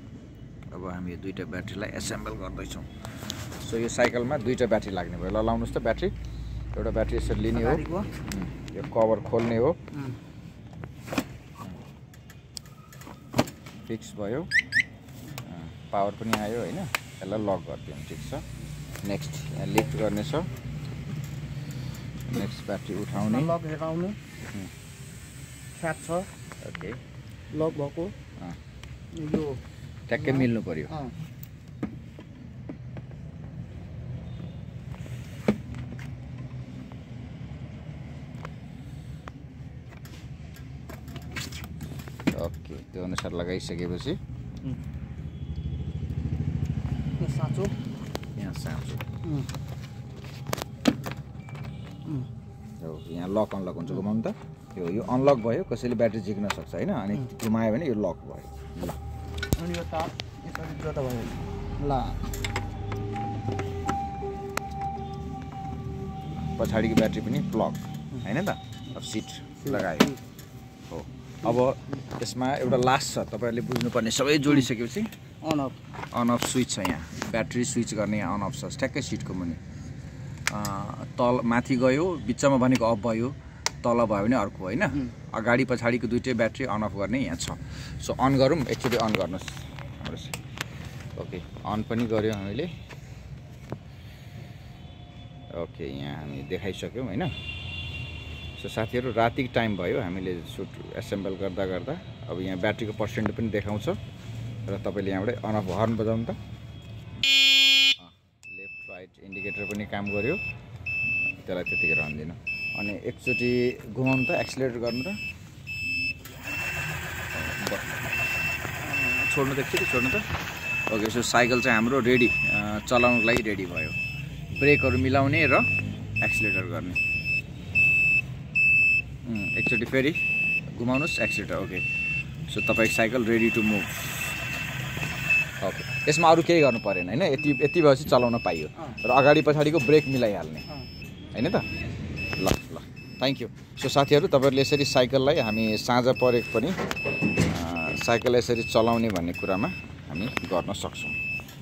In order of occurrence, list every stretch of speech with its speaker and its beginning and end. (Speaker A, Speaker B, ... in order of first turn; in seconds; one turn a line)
Speaker A: 0.7-2.9
Speaker A: 3.6-6.1
Speaker A: 6.7-9.8
Speaker B: 7.5-8.1
Speaker B: 9.9-10.2
Speaker A: 13.9-14.5
Speaker A: 15.4-18.4
Speaker A: 19.0-20.5
Speaker A: 22.3-23.5
Speaker B: 23.1-24.2
Speaker B: 25.7-26.3
Speaker A: 26.6-27.0
Speaker B: 27.5-28.1
Speaker B: 29.1-29.6
Speaker A: 30.1-30.9
Speaker B: 30.1-31.1
Speaker A: 42.3-44.2
Speaker B: 47.2-47.7
Speaker A: 48.4-49.0
Speaker B: 49.2-49.5
Speaker A: 52.8-59.0
Speaker B: 59.6-62.2
Speaker A: 66.6-70.1
Speaker A: 70.9-75.1
Speaker B: 75.4-75.8
Speaker A: 76.1-79.6
Speaker A: 80.5-90.4
Speaker A: 91.2-92.7
Speaker A: 95.5-97.3
Speaker A: 98.6-104.0
Speaker A: 104.7-106.4
Speaker A: 108.0-110.4
Speaker A: 111.4-115.2
Speaker A: 117.3-117.9
Speaker A: 118.8-120.3
Speaker A: 120.9-124.0
Speaker A: 124.5-125.7
Speaker A: 126.2-127.0
Speaker A: 129.2-131.8
Speaker A: 132.5-134.4
Speaker A: 135.6-140.7
Speaker A: 141.3-141.7
Speaker A: 142.4-146.8
Speaker A: 147.4-151.2